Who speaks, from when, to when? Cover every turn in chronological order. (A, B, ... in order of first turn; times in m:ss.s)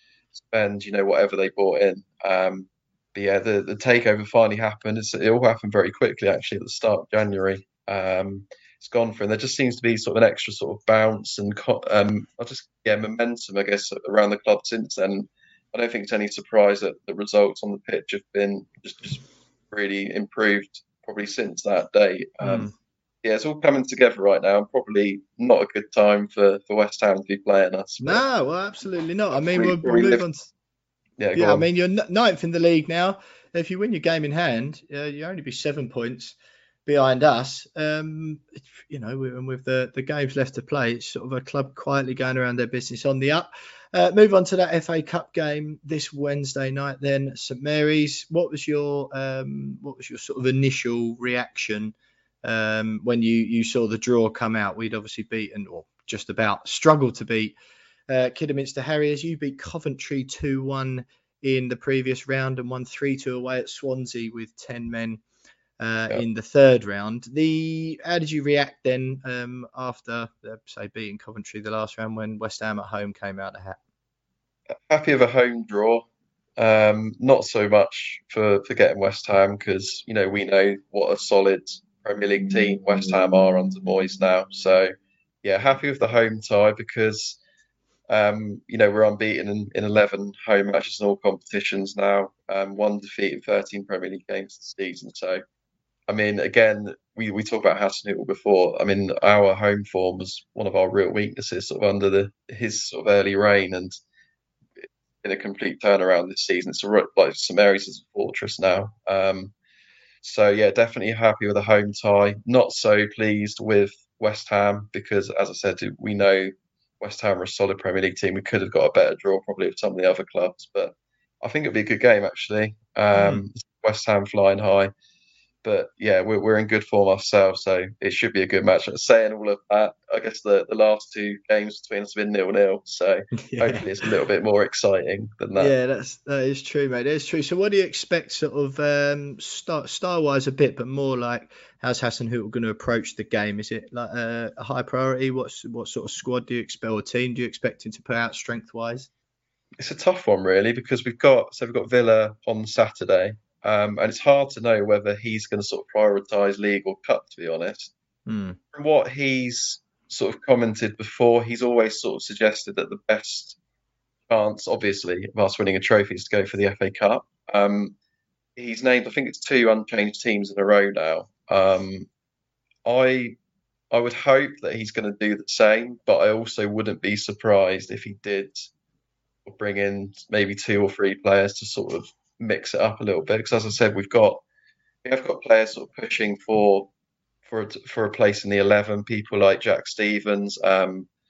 0:00.3-0:22.7 A
0:22.4-0:22.7 B
0:23.2-0:28.2 A
0:28.0-0:30.5 B
0:29.3-0:30.2 A
0:31.2-0:31.6 A
0:31.3-0:57.6 B
0:58.1-1:05.2 B
1:05.8-1:13.8 B
1:14.9-1:16.0 A
1:16.6-1:27.4 A
1:28.1-1:35.4 A
1:36.1-1:44.0 A
1:45.2-1:49.5 A
1:50.2-2:04.9 A
2:03.2-2:03.4 B
2:05.6-2:15.7 A
2:13.4-2:14.0 B
2:15.6-2:29.1 B
2:29.8-2:37.9 A
2:38.2-2:38.6 B
2:38.7-2:43.6 A
2:44.3-2:47.9 A
2:48.6-2:52.1 A
2:52.8-2:53.4 A
2:53.9-2:58.7 A
2:59.4-3:04.4 A
3:05.0-3:06.9 A
3:07.4-3:11.1 A